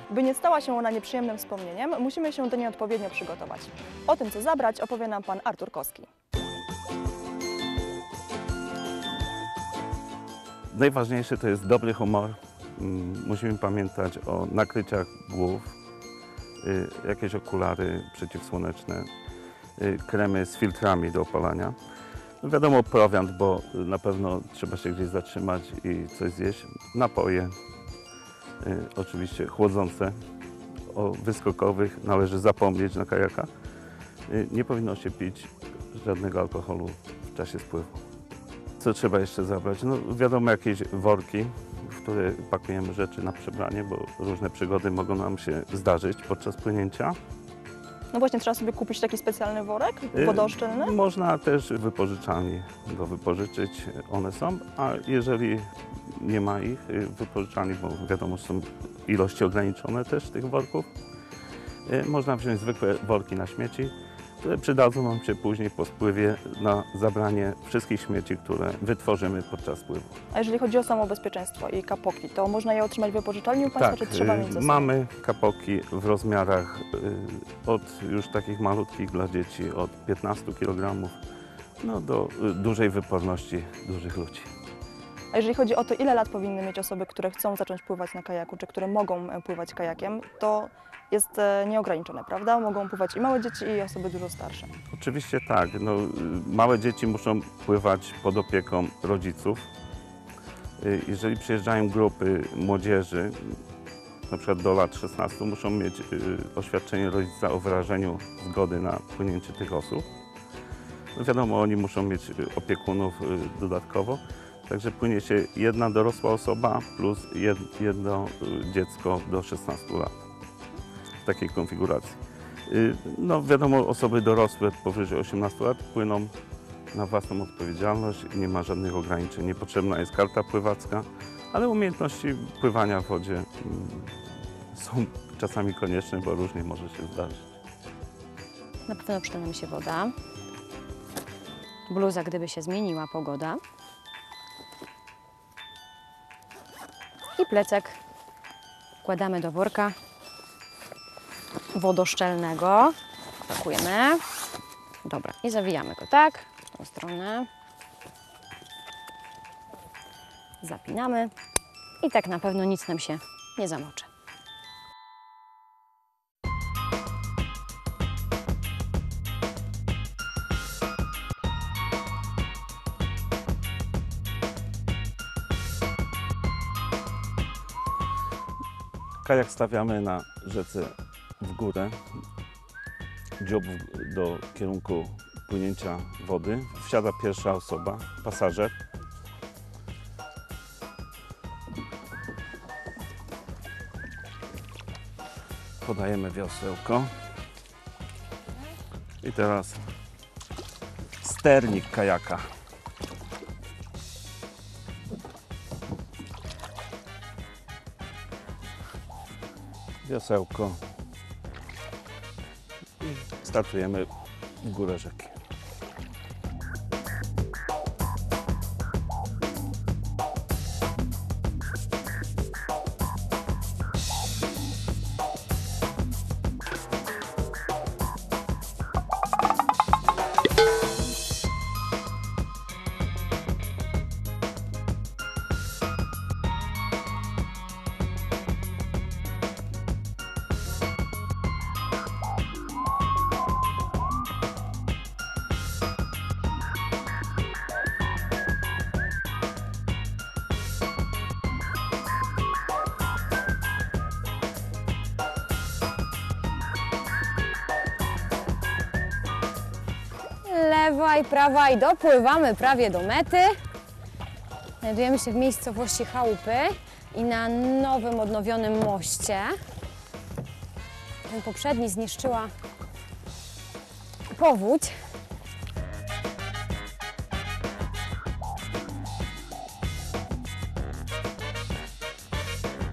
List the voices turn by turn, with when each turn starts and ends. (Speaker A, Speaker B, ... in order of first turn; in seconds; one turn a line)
Speaker A: 0.1-6.1
Speaker B: 10.7-15.7
Speaker B: 16.6-19.1
Speaker B: 19.8-21.8
Speaker B: 22.4-27.5
Speaker B: 28.6-30.1
Speaker B: 30.9-33.5
Speaker B: 34.3-38.0
Speaker B: 38.8-47.2
Speaker A: 48.1-50.9
Speaker B: 50.1-60.9
Speaker B: 61.9-70.2
Speaker A: 70.3-74.9
Speaker B: 73.7-81.2
Speaker B: 81.8-84.5
Speaker A: 85.3-94.7
Speaker B: 94.9-99.7
Speaker B: 100.8-103.6
Speaker B: 104.3-110.1
Speaker B: 111.1-120.1
Speaker B: 121.2-126.3
Speaker B: 126.9-134.2
Speaker B: 134.7-137.5
Speaker C: 138.9-140.1
Speaker C: 141.9-143.6
Speaker C: 147.3-148.0
Speaker C: 149.0-149.9
Speaker C: 151.7-154.2
Speaker C: 155.0-157.5
Speaker C: 160.6-161.3
Speaker C: 162.0-164.1
Speaker B: 179.2-182.0
Speaker B: 183.4-188.7
Speaker B: 195.8-197.1
Speaker B: 199.2-199.8
Speaker B: 201.2-202.4
Speaker B: 210.0-210.8
Speaker B: 213.0-214.1
Speaker B: 214.6-215.4
Speaker C: 260.4-263.5
Speaker C: 264.8-269.5
Speaker C: 271.2-272.5
Speaker C: 274.3-274.9